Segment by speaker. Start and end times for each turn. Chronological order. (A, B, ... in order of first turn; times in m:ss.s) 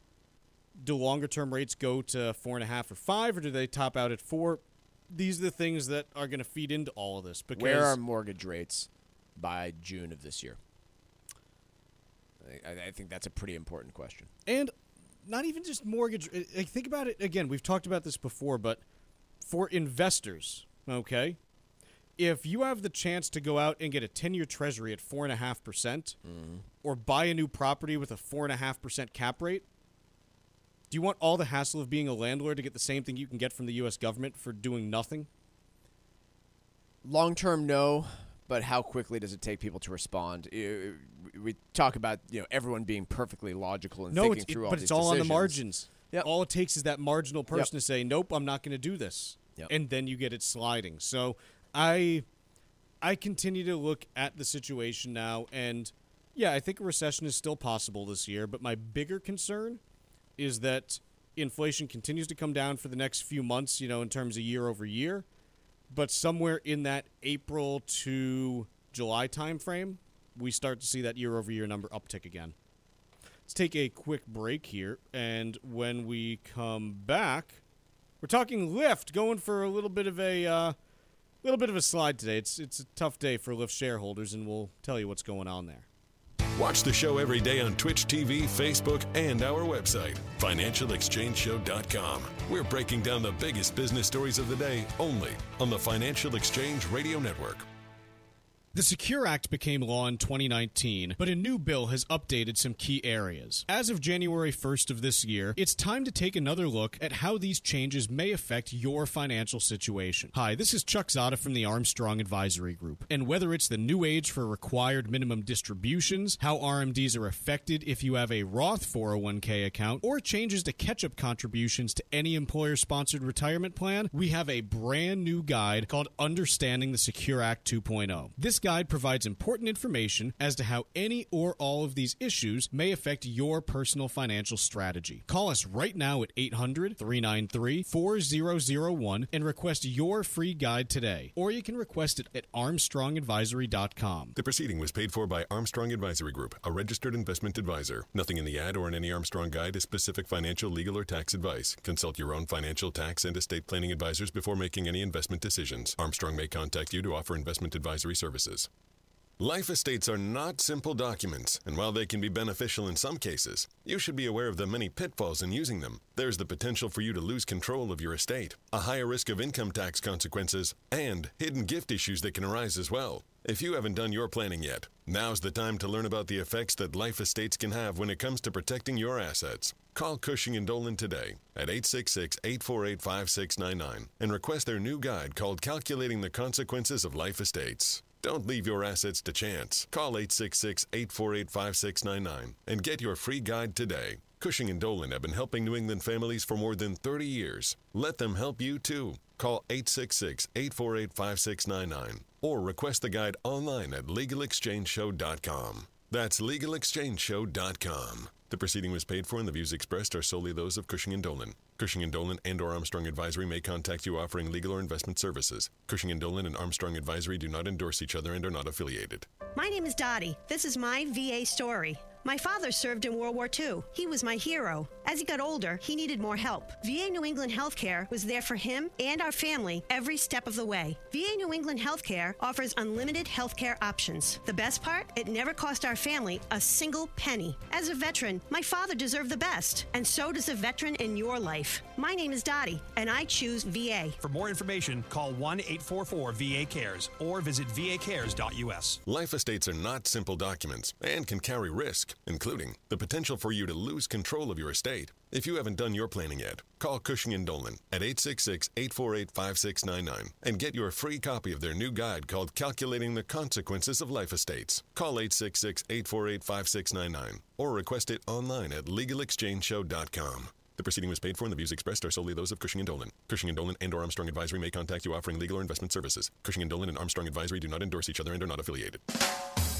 0:00.8-0:08.0 A
0:07.5-0:10.6 B
0:12.4-0:14.3 B
0:14.4-0:14.7 A
0:15.2-0:18.8 A
0:19.4-0:21.4 A
0:22.2-0:26.2 A
0:26.2-0:26.6 B
0:26.8-0:29.6 A
0:30.9-0:35.3 A
0:37.0-0:45.6 B
0:44.1-0:52.2 A
0:53.0-0:59.8 A
1:00.4-1:05.2 A
1:05.9-1:12.5 A
1:13.5-1:17.6 A
1:18.2-1:20.7 A
1:21.4-1:25.8 A
1:26.6-1:37.7 C
1:38.7-2:24.3 A
2:24.4-2:38.7 C
2:39.4-3:39.3 C
3:39.5-4:04.2 D
4:04.2-4:09.0 E
4:09.0-4:39.0 C